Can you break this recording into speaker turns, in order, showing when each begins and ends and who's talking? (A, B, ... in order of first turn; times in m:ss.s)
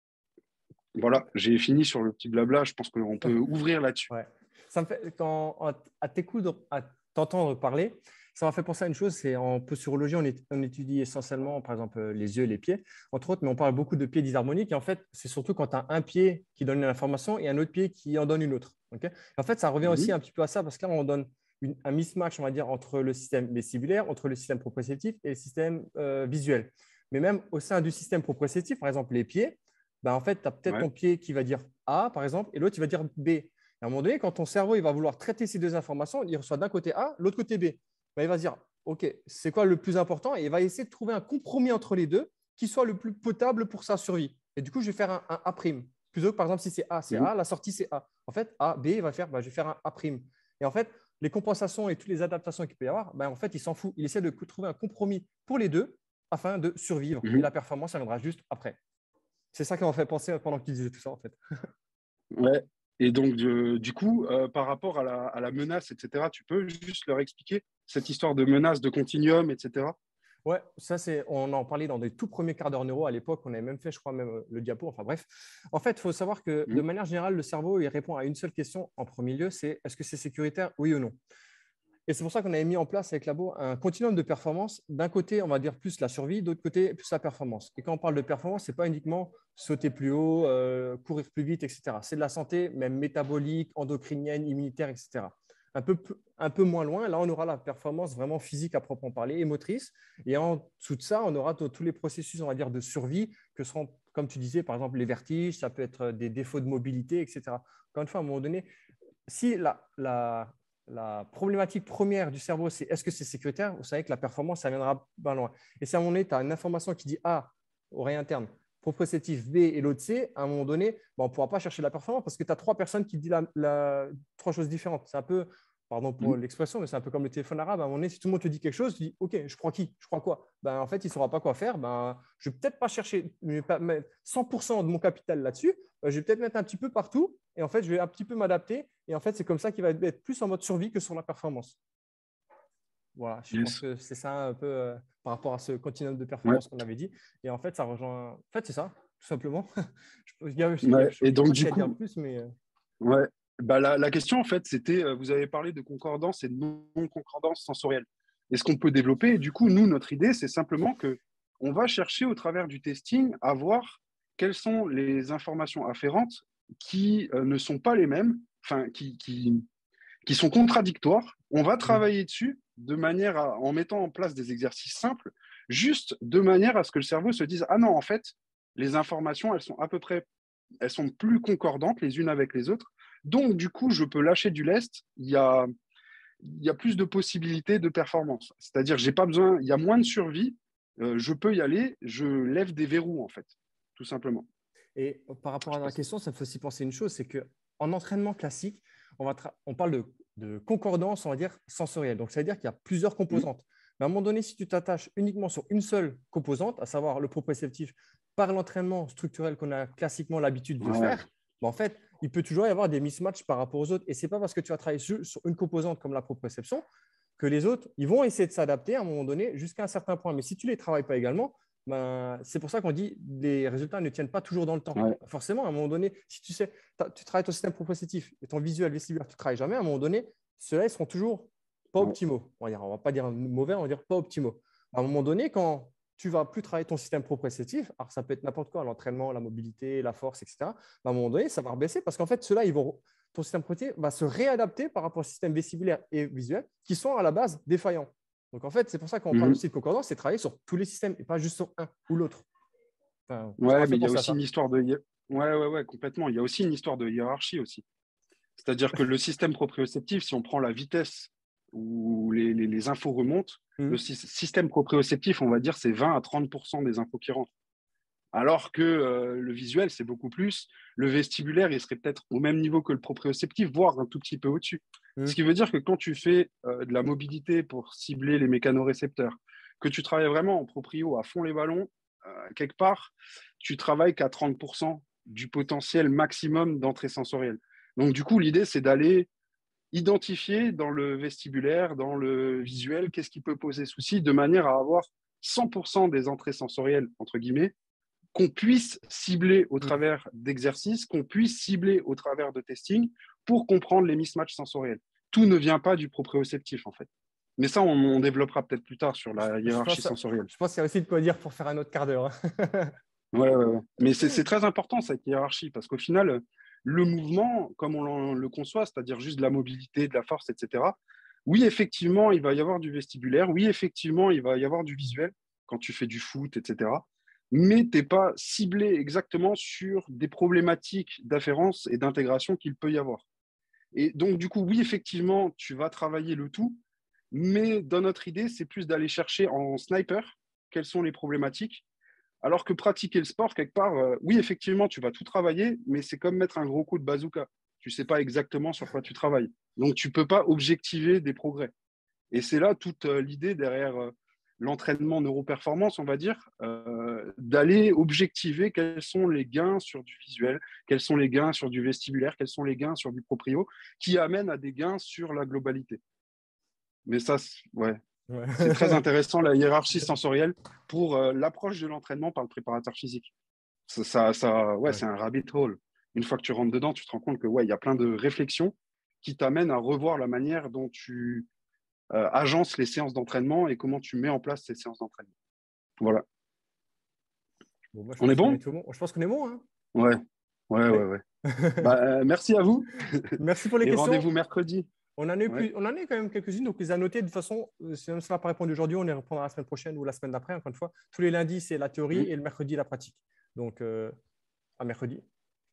0:01.0-0:04.1 A
0:04.1-0:58.8 B
0:19.8-0:20.1 A
0:59.5-1:01.4 B
1:02.3-1:09.9 A
1:10.4-1:21.2 B
1:22.1-1:48.7 B
1:49.3-2:21.8 B
2:23.2-2:29.7 B
2:23.5-2:23.8 A
2:30.2-2:32.5 B
2:30.8-2:31.9 A
2:33.0-2:49.6 A
2:50.2-3:00.3 A
3:00.8-3:05.7 A
3:06.4-3:14.5 A
3:15.0-3:36.8 B
3:15.7-3:15.9 A
3:30.8-3:31.2 A
3:37.4-4:12.5 B
4:09.3-4:09.6 A
4:13.3-4:14.4 B
4:13.6-4:17.8 A
4:18.6-4:27.5 A
4:28.3-4:49.3 A
4:49.9-4:57.7 A
4:58.3-5:07.1 A
5:07.6-5:10.5 A
5:09.6-5:12.9 B
5:13.3-5:33.2 A
5:33.9-5:36.8 A
5:37.3-5:41.8 A
5:42.4-5:51.7 A
5:52.3-6:06.0 A
6:07.0-6:08.0 A
6:08.3-6:09.0 B
6:08.6-6:13.3 A
6:13.9-6:21.5 A
6:22.1-6:25.3 A
6:27.9-6:29.6 B
6:28.2-6:28.6 A
6:29.9-6:30.2 A
6:30.7-6:31.2 A
6:30.9-6:31.9 B
6:31.8-6:33.1 A
6:33.4-6:34.2 B
6:33.8-6:34.9 A
6:35.2-6:44.1 B
6:44.8-6:45.2 B